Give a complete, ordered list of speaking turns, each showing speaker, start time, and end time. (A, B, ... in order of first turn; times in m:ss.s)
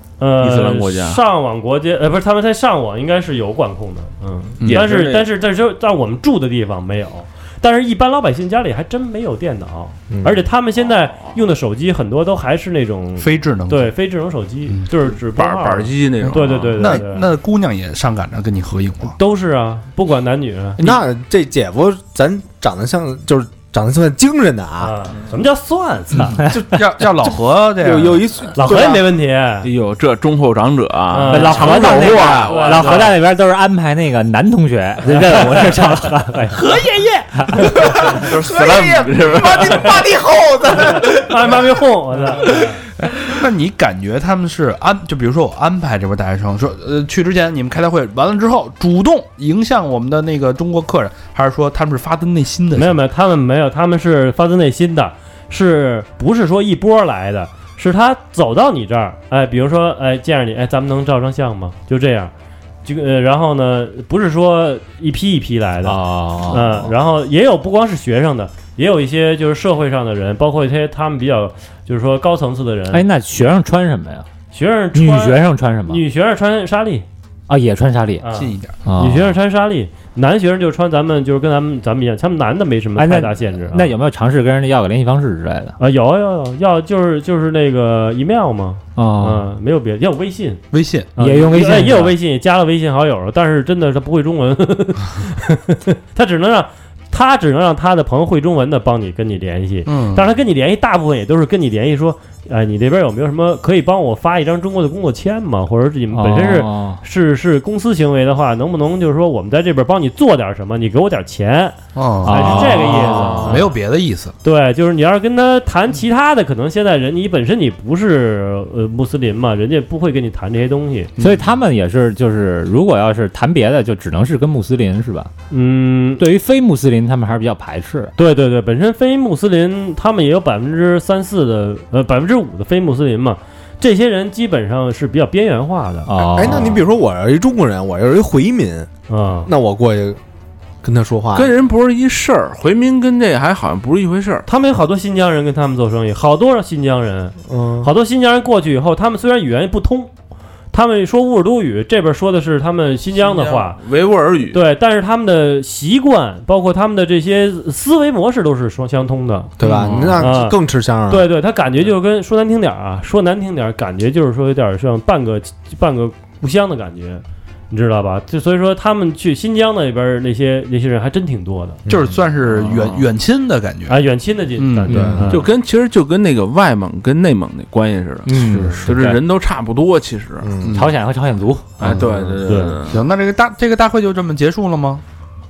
0:00.2-0:17.2 A
0:00.4-0:01.2 B
0:04.6-0:04.9 C
0:04.6-0:05.3 B
0:10.1-0:10.4 D
0:13.2-0:13.9 C
0:15.1-0:16.8 B
0:16.2-0:19.2 C
0:19.2-0:20.8 A
0:20.8-0:25.0 D
0:24.8-0:26.4 A
0:26.2-0:28.3 C
0:26.4-0:26.6 E
0:27.8-0:29.0 D
0:28.6-0:29.7 A
0:29.6-0:33.1 B
0:31.1-0:33.1 A
0:31.3-0:37.7 E
0:35.2-0:36.0 D
0:36.5-0:36.9 A
0:37.6-0:41.4 D
0:37.8-0:40.2 B
0:40.8-0:42.8 A
0:43.0-0:53.0 C
0:52.8-1:02.3 A
1:02.8-1:13.0 A
1:05.8-1:06.9 E
1:12.9-1:14.2 E
1:14.5-1:17.0 A
1:14.9-1:16.0 E
1:17.5-1:18.3 E
1:18.2-1:23.9 A
1:18.3-1:18.8 C
1:18.8-1:19.4 E
1:23.0-1:25.8 E
1:25.8-1:30.6 A
1:29.0-1:29.4 E
1:30.7-1:31.1 C
1:31.2-1:53.7 A
1:31.2-1:32.2 E
1:39.9-1:40.2 C
1:46.1-1:47.0 E
1:52.0-1:54.4 C
1:52.2-1:53.5 E
1:53.1-1:53.6 B
1:54.4-2:01.1 A
2:01.2-2:01.5 C
2:01.2-2:05.3 E
2:05.5-2:06.2 A
2:06.2-2:08.1 E
2:08.2-2:16.7 A
2:16.1-2:16.9 E
2:16.4-2:18.9 D
2:19.1-2:19.5 A
2:19.5-2:20.2 D
2:20.8-2:21.5 D
2:21.3-2:24.5 B
2:24.5-2:30.1 A
2:27.5-2:27.9 D
2:30.7-2:33.8 A
2:33.2-2:34.6 B
2:34.5-2:39.6 A
2:39.6-2:41.3 D
2:39.6-2:40.1 C
2:39.6-2:40.3 B
2:40.2-2:40.6 A
2:41.1-2:51.8 A
2:51.8-2:52.2 D
2:51.9-2:54.0 C
2:53.9-2:55.5 A
2:54.6-2:55.3 C
2:54.9-2:55.3 D
2:55.3-3:00.5 B
2:58.3-2:59.2 E
2:58.4-2:58.9 C
3:00.4-3:00.9 D
3:00.6-3:00.9 C
3:00.8-3:01.8 E
3:01.8-3:03.0 B
3:01.8-3:05.0 C
3:02.5-3:02.8 A